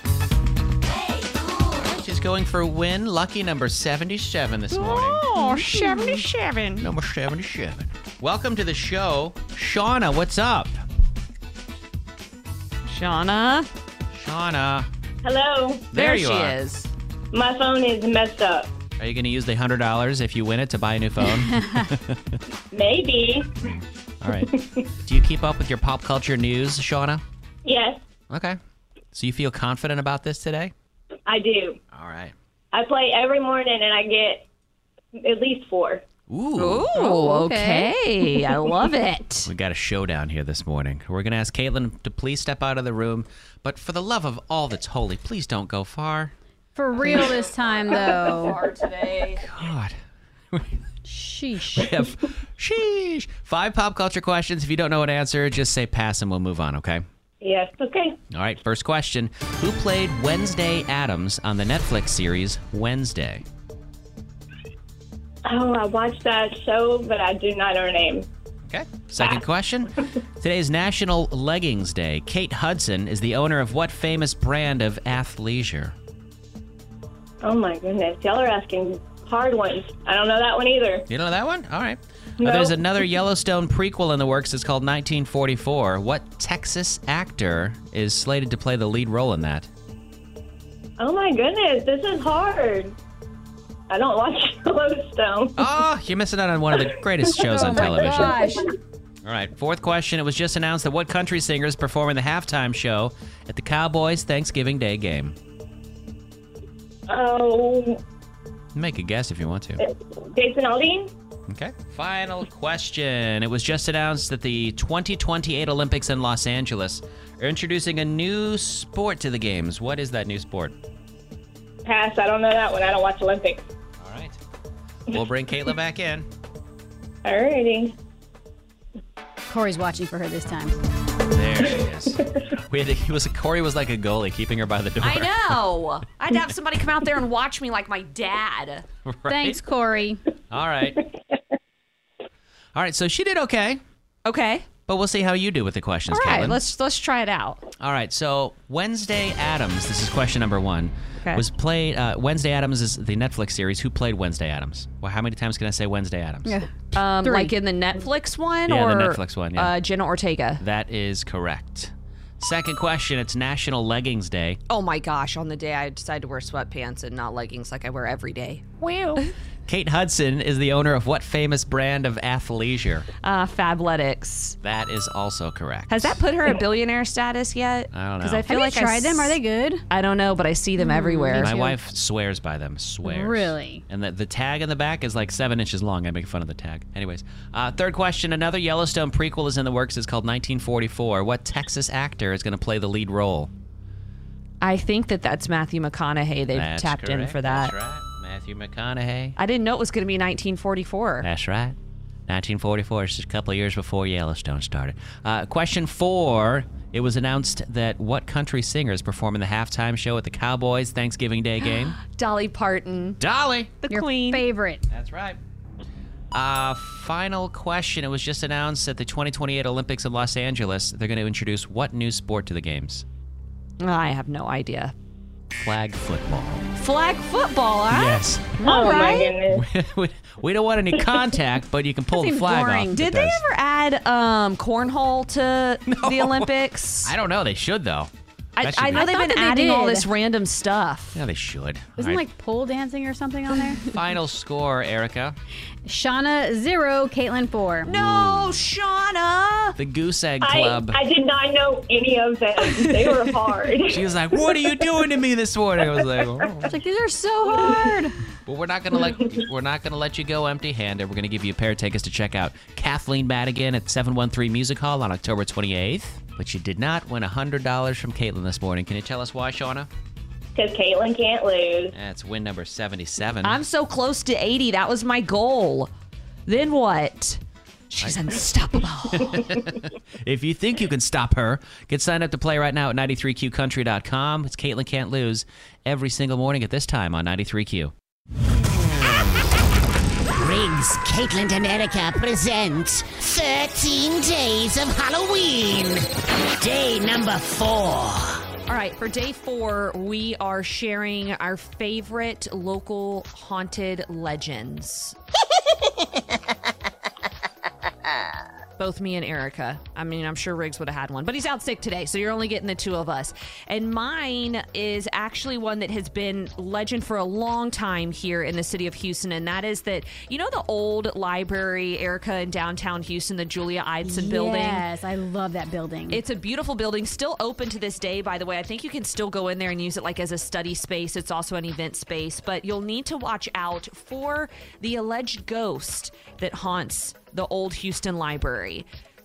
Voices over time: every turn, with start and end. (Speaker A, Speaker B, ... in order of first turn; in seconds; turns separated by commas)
Speaker A: 0.9-1.7, Speaker B: 1.8-5.2, Speaker C: 4.7-6.9, Speaker D: 5.3-6.2, Speaker B: 6.8-10.7, Speaker C: 12.9-13.7, Speaker B: 14.1-14.9, Speaker E: 15.2-15.8, Speaker B: 15.9-16.6, Speaker C: 15.9-16.9, Speaker E: 17.3-18.7, Speaker B: 19.0-22.4, Speaker E: 22.7-23.5, Speaker B: 23.6-27.2, Speaker E: 24.4-24.8, Speaker E: 27.6-28.0, Speaker B: 28.3-28.6, Speaker B: 29.1-30.7, Speaker E: 31.2-31.8, Speaker B: 31.9-32.3, Speaker E: 32.7-34.5, Speaker E: 35.1-36.0, Speaker B: 36.3-36.9, Speaker C: 36.6-39.5, Speaker D: 36.9-37.9, Speaker B: 39.5-46.3, Speaker D: 46.8-48.6, Speaker C: 47.0-49.5, Speaker B: 49.4-49.9, Speaker D: 51.0-52.0, Speaker B: 51.7-57.0, Speaker E: 57.4-58.2, Speaker B: 58.3-63.4, Speaker E: 65.4-68.3, Speaker B: 68.7-75.9, Speaker E: 77.4-81.0, Speaker B: 81.1-89.7, Speaker E: 82.4-82.9, Speaker E: 91.0-92.9, Speaker E: 93.9-95.5, Speaker B: 95.6-98.4, Speaker D: 97.5-98.7, Speaker E: 98.0-98.3, Speaker B: 99.2-105.3, Speaker E: 107.1-108.0, Speaker B: 108.7-109.8, Speaker E: 109.8-111.1, Speaker B: 111.5-120.7, Speaker E: 121.8-123.6, Speaker B: 124.0-124.4, Speaker B: 125.1-126.2, Speaker E: 127.2-127.9, Speaker D: 129.5-130.8, Speaker B: 131.3-135.5, Speaker C: 135.0-138.8, Speaker B: 139.0-139.6, Speaker D: 139.3-140.2, Speaker B: 140.5-141.0, Speaker B: 142.7-143.8, Speaker C: 144.2-144.7, Speaker B: 144.8-146.6, Speaker C: 146.1-147.6, Speaker B: 147.8-156.6, Speaker D: 156.4-157.5, Speaker C: 156.9-160.6, Speaker B: 158.7-159.7, Speaker B: 160.6-164.6, Speaker C: 164.7-169.3, Speaker B: 168.8-173.1, Speaker C: 173.2-174.6, Speaker B: 174.6-176.2, Speaker C: 175.9-179.4, Speaker B: 177.9-178.4, Speaker D: 178.5-179.8, Speaker C: 179.9-181.5, Speaker D: 180.8-181.8, Speaker B: 181.3-193.5, Speaker D: 183.0-183.8, Speaker C: 194.6-197.7, Speaker B: 196.5-199.3, Speaker C: 199.4-201.3, Speaker B: 201.2-201.8, Speaker B: 202.3-212.0, Speaker C: 211.7-213.2, Speaker B: 213.2-213.7, Speaker C: 213.8-214.4, Speaker D: 213.9-214.8, Speaker B: 214.9-215.4, Speaker B: 216.3-223.0, Speaker C: 223.8-224.9, Speaker B: 225.6-226.7, Speaker C: 226.8-228.2, Speaker B: 227.9-233.4, Speaker D: 228.6-229.3, Speaker E: 228.6-229.7, Speaker D: 232.1-233.0, Speaker C: 232.9-237.1, Speaker B: 235.9-236.5, Speaker B: 237.0-238.1, Speaker C: 238.6-241.2, Speaker B: 238.6-239.1, Speaker D: 238.9-240.1, Speaker B: 241.1-242.2, Speaker D: 242.0-243.8, Speaker B: 243.9-245.4, Speaker D: 245.8-247.9, Speaker C: 247.8-249.8, Speaker B: 247.9-248.6, Speaker B: 249.8-251.0, Speaker E: 250.4-254.1, Speaker B: 253.9-256.7, Speaker D: 256.7-258.2, Speaker B: 258.4-269.9, Speaker E: 270.5-271.9, Speaker B: 271.9-273.6, Speaker C: 273.4-275.9, Speaker C: 276.5-279.4, Speaker B: 278.0-278.4, Speaker B: 279.1-287.9, Speaker A: 290.3-296.1, Speaker A: 296.6-298.4, Speaker C: 298.7-305.1, Speaker C: 308.8-324.8, Speaker D: 324.0-326.2, Speaker C: 326.1-338.9